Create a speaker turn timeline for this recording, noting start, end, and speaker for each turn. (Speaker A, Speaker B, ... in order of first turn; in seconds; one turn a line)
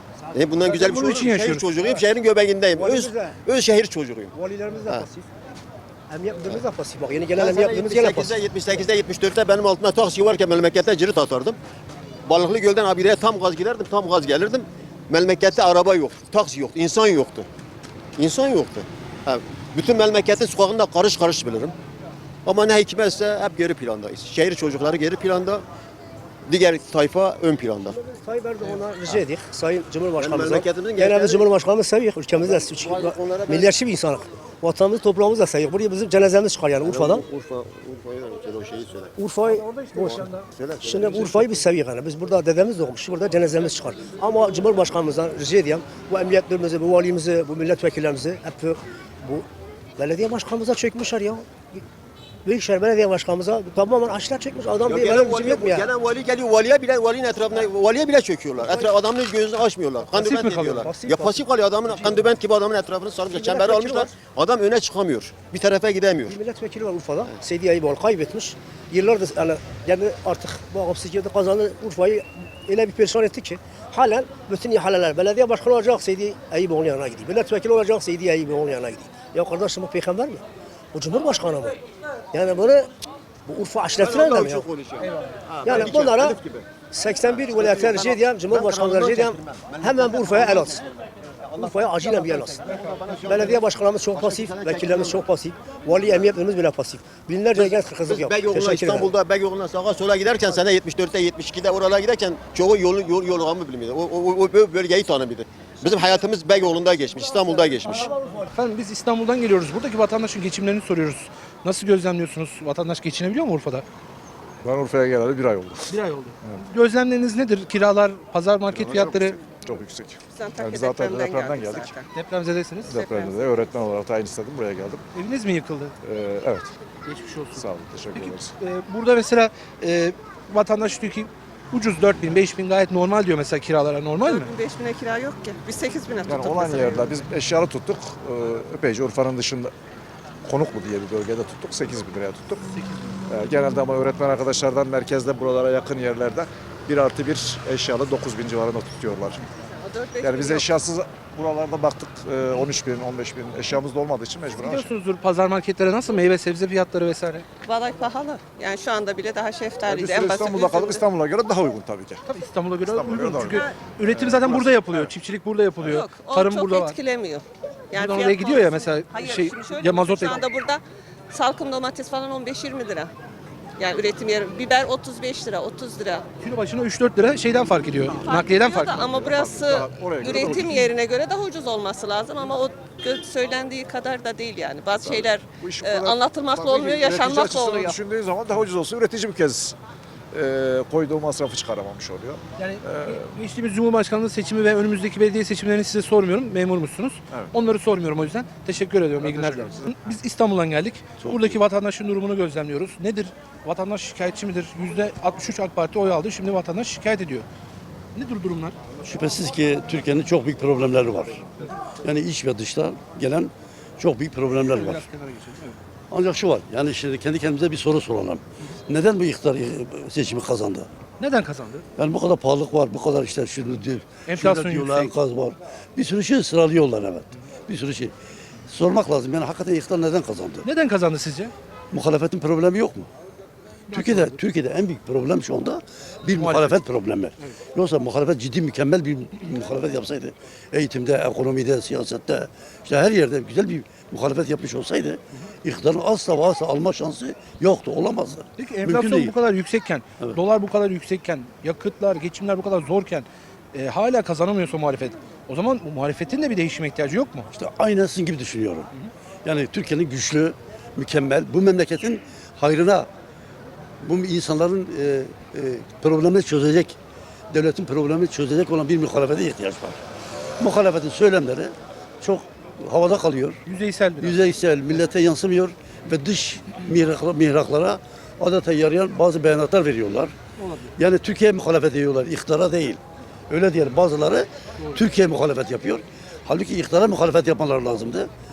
Speaker A: 0.3-4.3
Speaker B: 0.6-1.7
Speaker C: 2.7-3.4
Speaker C: 4.3-5.3
Speaker C: 6.1-8.4
Speaker A: 7.3-11.6
Speaker A: 12.2-17.5
Speaker A: 18.2-21.7
Speaker A: 22.4-25.6
Speaker A: 26.5-27.9
Speaker C: 27.9-37.2
Speaker A: 30.2-31.5
Speaker A: 32.4-33.7
Speaker A: 36.8-39.1
Speaker C: 39.2-40.2
Speaker B: 39.4-40.5
Speaker A: 40.0-41.5
Speaker C: 40.8-49.5
Speaker C: 50.0-51.8
Speaker C: 52.4-55.9
Speaker A: 54.8-66.4
Speaker C: 58.5-59.0
Speaker B: 60.1-60.9
Speaker C: 60.7-61.5
Speaker C: 63.3-64.2
Speaker C: 66.3-81.8
Speaker C: 82.3-82.9
Speaker C: 83.5-84.7
Speaker A: 84.0-86.7
Speaker C: 85.6-90.8
Speaker A: 87.3-90.8
Speaker C: 91.5-92.7
Speaker A: 91.6-95.2
Speaker C: 93.2-99.1
Speaker A: 97.5-108.1
Speaker B: 107.9-113.8
Speaker D: 114.6-115.9
Speaker B: 115.9-119.4
Speaker D: 118.7-121.9
Speaker E: 120.3-122.1
Speaker B: 122.1-123.0
Speaker D: 122.9-125.0
Speaker E: 123.0-123.4
Speaker B: 125.1-125.9
Speaker D: 126.0-126.7
Speaker B: 127.0-134.5
Speaker D: 127.5-128.5
Speaker E: 134.2-137.2
Speaker D: 136.2-139.7
Speaker D: 140.5-142.6
Speaker D: 143.3-149.4
Speaker E: 149.8-150.7
Speaker D: 150.2-154.9
Speaker B: 154.5-157.4
Speaker E: 157.6-161.0
Speaker D: 159.9-162.2
Speaker B: 162.3-167.0
Speaker D: 162.8-165.1
Speaker E: 163.4-163.8
Speaker E: 165.8-173.1
Speaker B: 167.9-170.4
Speaker E: 173.8-176.3
Speaker B: 176.4-179.1
Speaker E: 178.1-188.0
Speaker D: 178.9-180.9
Speaker D: 185.0-189.8
Speaker D: 190.3-193.3
Speaker B: 192.6-207.4
Speaker D: 199.2-200.0
Speaker F: 201.2-201.6
Speaker B: 208.1-208.8
Speaker F: 209.0-211.5
Speaker F: 212.0-215.1
Speaker B: 214.7-215.8
Speaker F: 216.1-220.9
Speaker B: 221.2-221.8
Speaker F: 222.0-228.1
Speaker B: 224.3-225.1
Speaker F: 228.7-230.7
Speaker B: 230.6-231.5
Speaker F: 231.9-233.1
Speaker F: 233.9-249.3
Speaker B: 233.9-234.4
Speaker B: 236.3-236.8
Speaker B: 248.6-257.5
Speaker F: 257.5-258.9
Speaker F: 259.4-263.1
Speaker F: 264.0-266.9
Speaker F: 267.5-270.0
Speaker F: 270.6-273.6
Speaker B: 273.6-274.4
Speaker F: 274.2-280.3
Speaker B: 280.6-280.9
Speaker F: 281.0-288.3